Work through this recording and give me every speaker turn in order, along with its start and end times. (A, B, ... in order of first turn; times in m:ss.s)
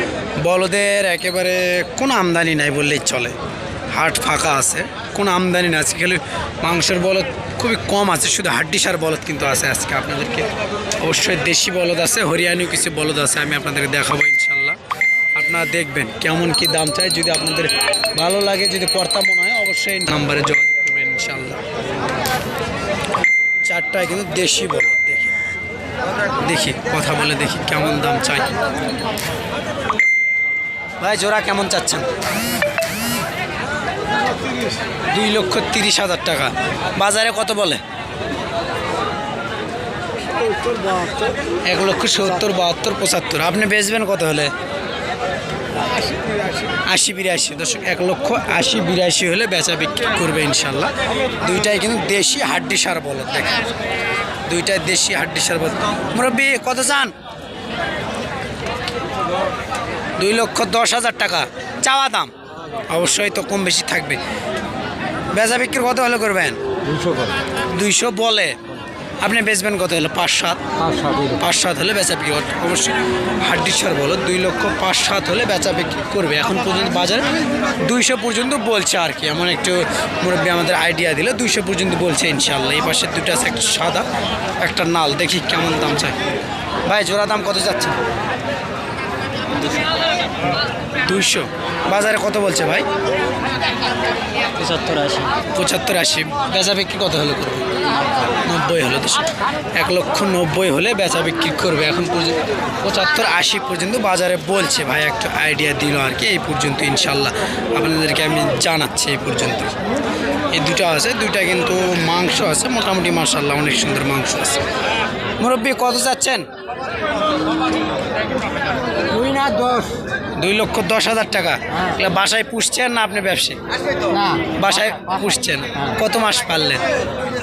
0:00.4-0:03.3 A
0:03.9-0:14.8 A
0:15.3-0:21.6 A
0:23.6-0:25.4 A
0:26.4-0:28.5 A
0:31.0-0:32.1 A
0:35.1-0:37.8 A
0:40.8-0:41.1 B
0:41.7-0:44.5 A
0:46.8-0:53.6 A
0:54.5-0:57.1 A
1:00.2-1:02.3 A
1:02.9-1:04.2 A
1:05.3-1:06.6 A
1:06.9-1:07.3 B
1:07.7-1:08.6 A
1:09.2-1:10.6 A
1:10.8-1:11.4 B
1:11.3-1:24.1 A
1:24.6-1:26.2 A
1:26.9-1:28.0 A
1:31.0-1:32.8 A
1:34.6-1:35.3 B
1:35.5-1:49.7 A
1:50.5-1:54.6 A
1:55.4-1:56.4 A
1:59.1-1:59.9 B
2:00.4-2:03.6 A
2:04.1-2:05.0 B
2:04.5-2:06.8 A